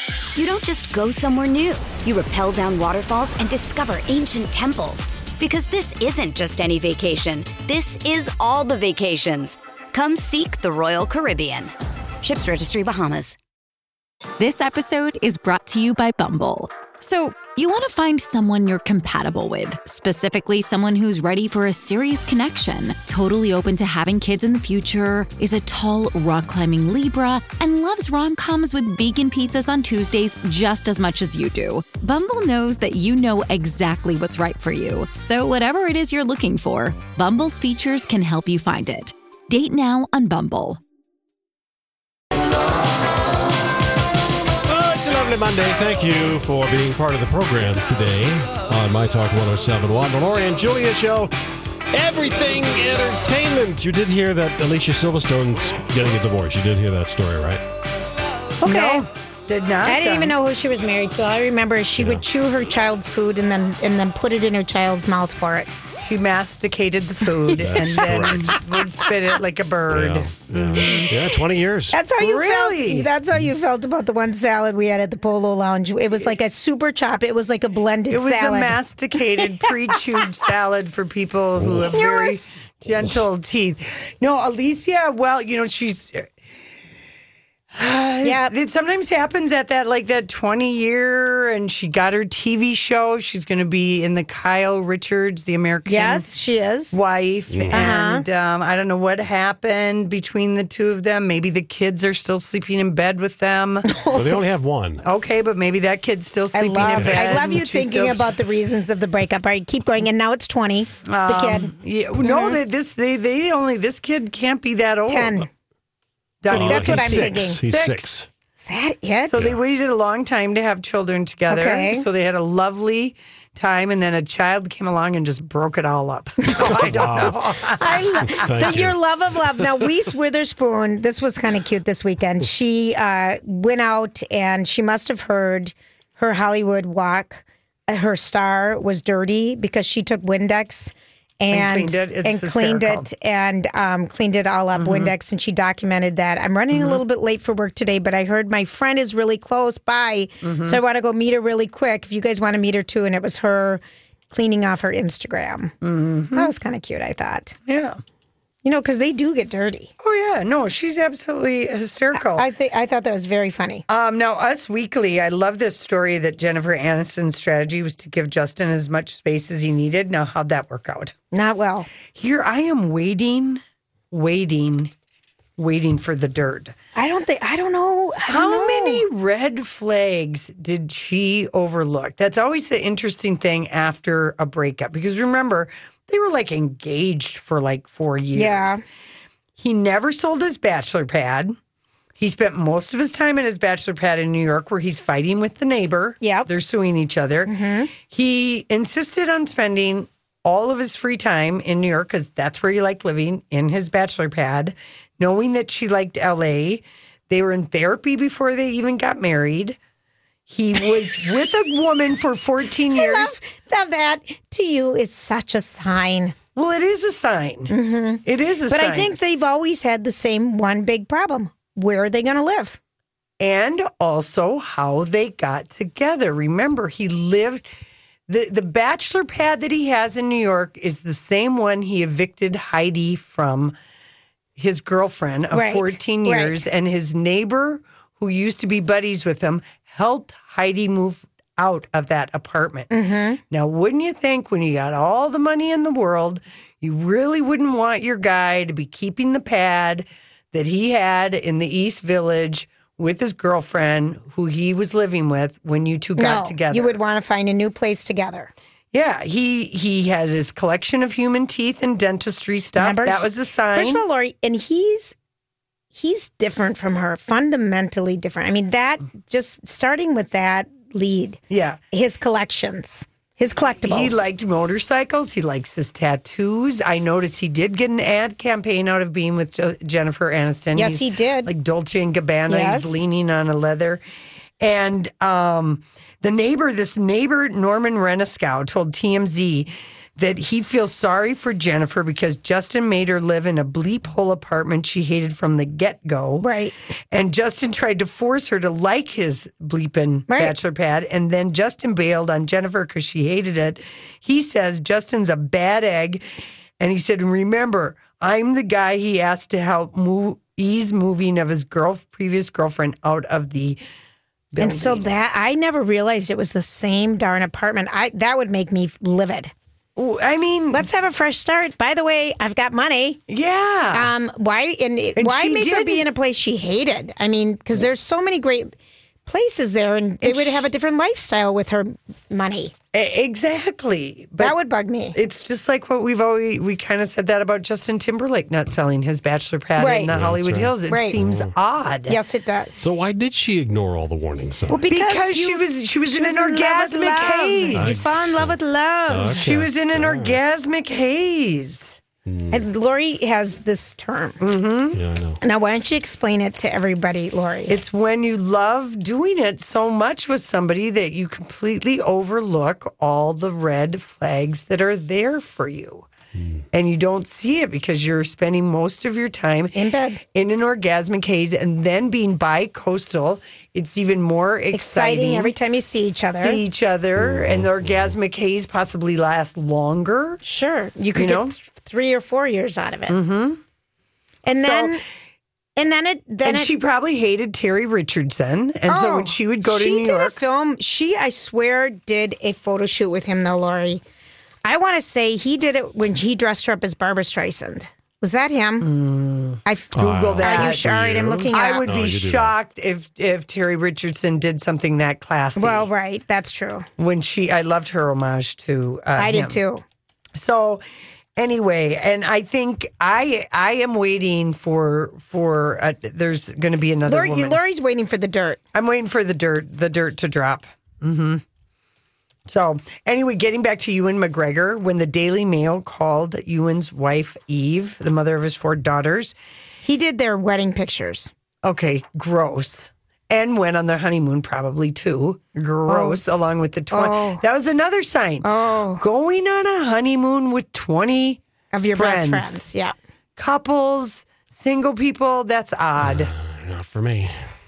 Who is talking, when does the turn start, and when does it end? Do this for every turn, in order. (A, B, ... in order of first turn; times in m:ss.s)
0:00.4-0:13.4 A
0:14.4-0:40.8 B
0:44.7-0:51.3 C
0:51.9-0:57.6 C
0:58.6-0:59.0 D
0:58.6-1:00.4 E
0:59.9-1:05.7 D
1:02.0-1:02.2 C
1:06.0-1:11.2 E
1:07.4-1:08.0 D
1:07.6-1:08.6 C
1:09.9-1:12.0 C
1:11.9-1:18.8 D
1:12.2-1:13.1 E
1:18.1-1:26.3 E
1:19.4-1:20.3 D
1:21.6-1:21.9 C
1:21.9-1:22.4 D
1:27.7-1:36.3 E
1:28.2-1:28.5 D
1:35.9-1:37.0 D
1:36.9-1:43.9 E
1:37.5-1:37.9 C
1:37.7-1:38.2 D
1:43.9-1:44.4 D
1:44.1-1:45.0 C
1:45.0-1:48.4 E
1:46.5-1:52.6 D
1:46.9-1:47.4 C
1:51.0-1:55.4 E
1:55.1-1:55.5 D
1:56.4-1:58.1 E
1:56.5-1:57.6 D
1:56.5-1:58.3 C
1:58.6-1:59.5 D
1:59.3-2:08.8 E
1:59.3-1:59.6 C
2:01.5-2:02.1 D
2:06.4-2:35.7 D
2:06.6-2:09.0 C
2:21.5-2:23.1 E
2:24.8-2:25.1 E
2:26.7-2:27.0 E
2:30.4-2:30.8 E
2:35.8-2:36.5 E
2:36.4-2:37.6 D
2:37.7-2:38.0 E
2:38.6-2:39.9 D
2:40.0-2:42.5 E
2:42.1-2:43.8 D
2:43.9-2:51.2 E
2:51.3-2:51.9 D
2:52.1-2:54.9 E
2:55.6-2:56.8 E
2:57.0-2:59.0 D
2:58.3-3:08.8 E
3:08.4-3:08.8 D
3:09.6-3:11.6 E
3:12.2-3:29.8 E
3:16.2-3:16.5 D
3:17.5-3:17.9 D
3:30.5-3:33.4 E
3:32.9-3:36.4 D
3:36.6-3:39.1 E
3:37.7-3:42.8 D
3:43.4-3:47.6 E
3:48.3-3:53.8 E
3:54.6-4:02.9 E
3:55.5-3:56.6 D
4:02.9-4:03.4 D
4:03.5-4:17.0 E
4:16.2-4:18.5 D
4:18.9-4:24.0 E
4:22.8-4:25.2 D
4:25.9-4:31.4 D
4:31.5-4:31.8 E
4:31.9-4:34.2 D
4:33.8-4:44.0 E
4:40.8-4:41.5 D
4:42.5-4:43.0 D
4:44.6-4:56.5 E
4:56.4-4:56.7 D
4:57.1-5:06.2 E
5:00.3-5:00.6 D
5:06.8-5:13.8 E
5:14.5-5:15.1 E
5:14.6-5:19.5 D
5:20.0-5:20.9 E
5:20.7-5:23.2 D
5:23.3-5:24.1 E
5:23.9-5:28.7 D
5:25.2-5:26.1 E
5:29.3-5:32.7 D
5:30.2-5:30.7 E
5:32.9-5:34.6 E
5:34.4-5:35.2 D
5:35.1-5:42.2 E
5:39.8-5:40.1 D
5:40.1-5:41.5 C
5:40.9-5:41.2 D
5:42.1-5:42.9 D
5:42.8-5:44.8 C
5:44.7-5:49.4 D
5:44.9-5:48.1 E
5:47.7-5:50.4 C
5:49.3-5:52.0 E
5:52.2-5:52.6 C
5:52.5-5:54.4 D
5:54.4-5:55.0 E
5:54.9-5:55.4 C
5:55.4-5:57.8 D
5:57.7-6:06.1 E
6:06.7-6:15.5 E
6:09.7-6:10.2 D
6:14.7-6:16.6 D
6:16.4-6:20.4 E
6:17.2-6:18.1 C
6:20.4-6:23.2 D
6:21.2-6:21.6 E
6:23.1-6:23.6 E
6:24.4-6:25.0 D
6:24.5-6:25.0 E
6:25.8-6:26.7 D
6:26.4-6:30.4 E
6:28.9-6:34.0 D
6:34.6-6:38.9 D
6:38.8-6:45.9 E
6:39.6-6:41.9 D
6:39.9-6:42.5 C
6:45.6-6:46.9 D
6:47.0-6:49.6 E
6:49.2-6:49.8 D
6:50.4-6:50.8 E
6:51.4-6:57.6 E
6:57.1-6:58.6 D
6:58.7-7:01.4 E
7:02.5-7:09.4 E
7:09.8-7:11.3 D
7:11.6-7:18.5 E
7:15.9-7:16.2 D
7:16.9-7:17.4 D
7:18.4-7:19.0 D
7:19.0-7:21.4 E
7:21.7-7:23.0 D
7:21.9-7:22.6 E
7:23.4-7:26.3 E
7:26.0-7:27.4 C